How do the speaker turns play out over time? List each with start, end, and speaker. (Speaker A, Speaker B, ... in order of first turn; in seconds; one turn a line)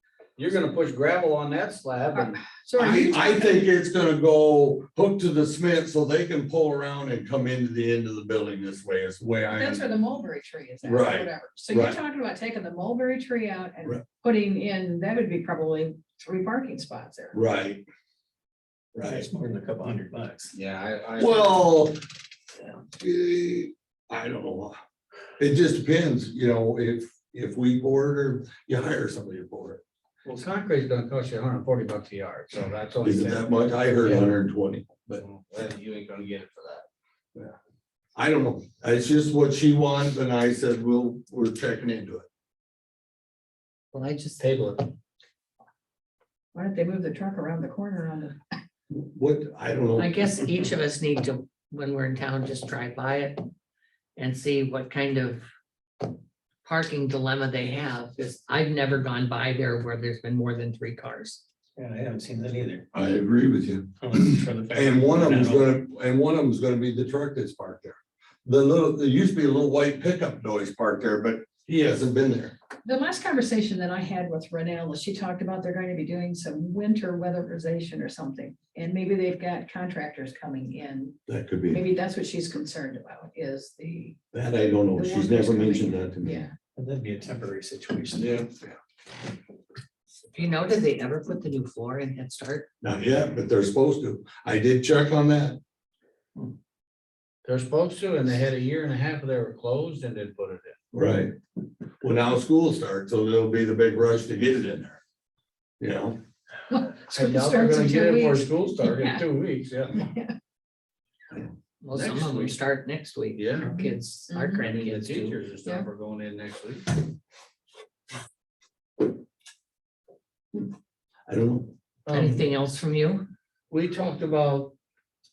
Speaker A: 0.4-2.4
Speaker B: 2.1-3.6
Speaker C: 2.8-9.8
Speaker B: 9.5-17.4
Speaker C: 10.8-12.0
Speaker C: 17.3-17.8
Speaker C: 18.9-19.2
Speaker D: 19.0-20.6
Speaker A: 20.6-21.7
Speaker C: 21.2-22.0
Speaker C: 23.0-24.8
Speaker C: 25.4-29.8
Speaker A: 30.2-34.3
Speaker C: 33.0-35.2
Speaker A: 35.2-36.8
Speaker C: 38.1-42.3
Speaker E: 43.9-44.5
Speaker A: 44.4-44.9
Speaker B: 46.5-48.4
Speaker C: 48.9-50.2
Speaker E: 50.0-53.4
Speaker E: 54.2-55.5
Speaker E: 56.6-61.4
Speaker D: 61.8-62.8
Speaker C: 62.9-72.5
Speaker D: 64.0-65.5
Speaker B: 72.8-81.2
Speaker C: 81.3-81.8
Speaker B: 81.7-84.2
Speaker C: 84.3-86.4
Speaker B: 84.9-86.5
Speaker D: 86.8-88.2
Speaker A: 88.2-88.5
Speaker E: 90.3-92.7
Speaker C: 92.8-95.6
Speaker A: 97.4-100.8
Speaker C: 100.9-101.3
Speaker C: 102.0-105.0
Speaker C: 105.8-106.2
Speaker B: 106.7-109.2
Speaker A: 107.2-110.0
Speaker B: 109.9-110.3
Speaker E: 111.8-115.4
Speaker A: 111.9-112.6
Speaker A: 113.3-113.7
Speaker B: 113.6-114.6
Speaker A: 114.6-117.0
Speaker C: 121.3-121.7
Speaker A: 122.0-122.4
Speaker E: 122.1-123.2
Speaker A: 123.7-124.7